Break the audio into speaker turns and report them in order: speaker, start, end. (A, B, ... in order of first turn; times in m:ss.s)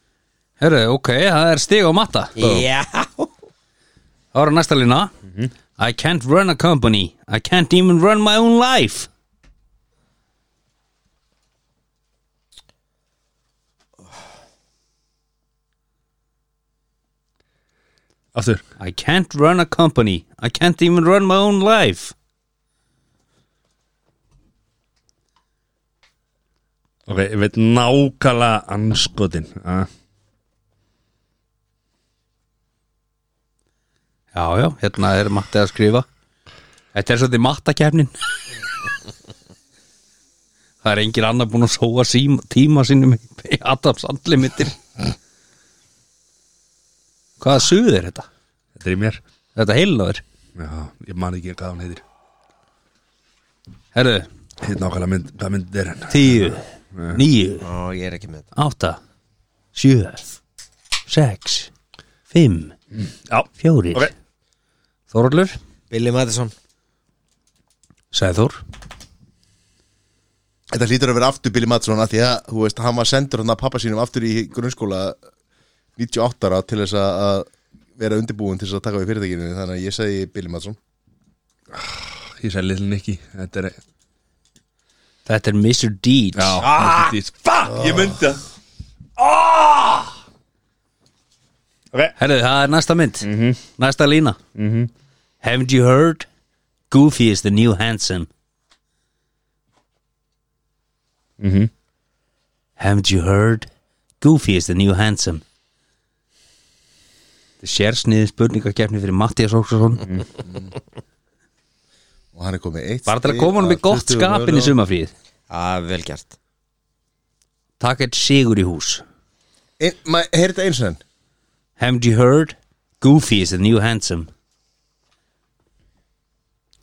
0:00.6-0:02.6 A
0:02.4-0:03.3 B
0:04.3-0:05.1 A
0:05.8-0:09.1 A
0:18.4-0:18.6 C
0:18.8-0:22.1 A
0:27.1-0:29.9 C
0:34.3-0:36.1 A
0:36.9-0:38.1 A
0:40.8-0:44.8 A
0:47.4-0:48.3 A
0:48.8-0:49.2 C
0:49.6-0:50.2 A
0:50.6-0:52.0 C
0:53.9-0:54.3 A
0:54.6-0:57.2 C
0:56.1-0:57.7 A
0:57.6-0:58.5 B
0:58.6-0:59.0 A
0:59.7-1:00.4 A
1:01.1-1:01.7 A
1:02.3-1:02.8 A
1:02.9-1:04.1 C
1:03.6-1:04.1 A
1:05.1-1:05.6 A
1:05.9-1:06.5 B
1:08.1-1:08.6 A
1:10.7-1:15.2 D
1:16.0-1:20.8 D
1:21.7-1:23.8 C
1:25.3-1:26.6 A
1:26.4-1:28.4 C
1:26.6-1:27.1 B
1:27.8-1:28.2 D
1:29.2-1:30.1 C
1:32.2-1:34.4 A
1:33.2-1:33.6 C
1:34.6-1:34.9 C
1:35.4-1:36.3 A
1:36.9-1:38.3 A
1:41.4-1:41.7 C
1:42.8-1:43.7 A
1:44.2-1:45.4 A
1:47.6-1:50.1 A
1:52.3-1:54.8 D
1:53.1-1:55.1 A
1:55.5-1:56.3 B
1:57.8-1:59.0 A
1:59.8-2:01.0 D
2:01.8-2:04.3 A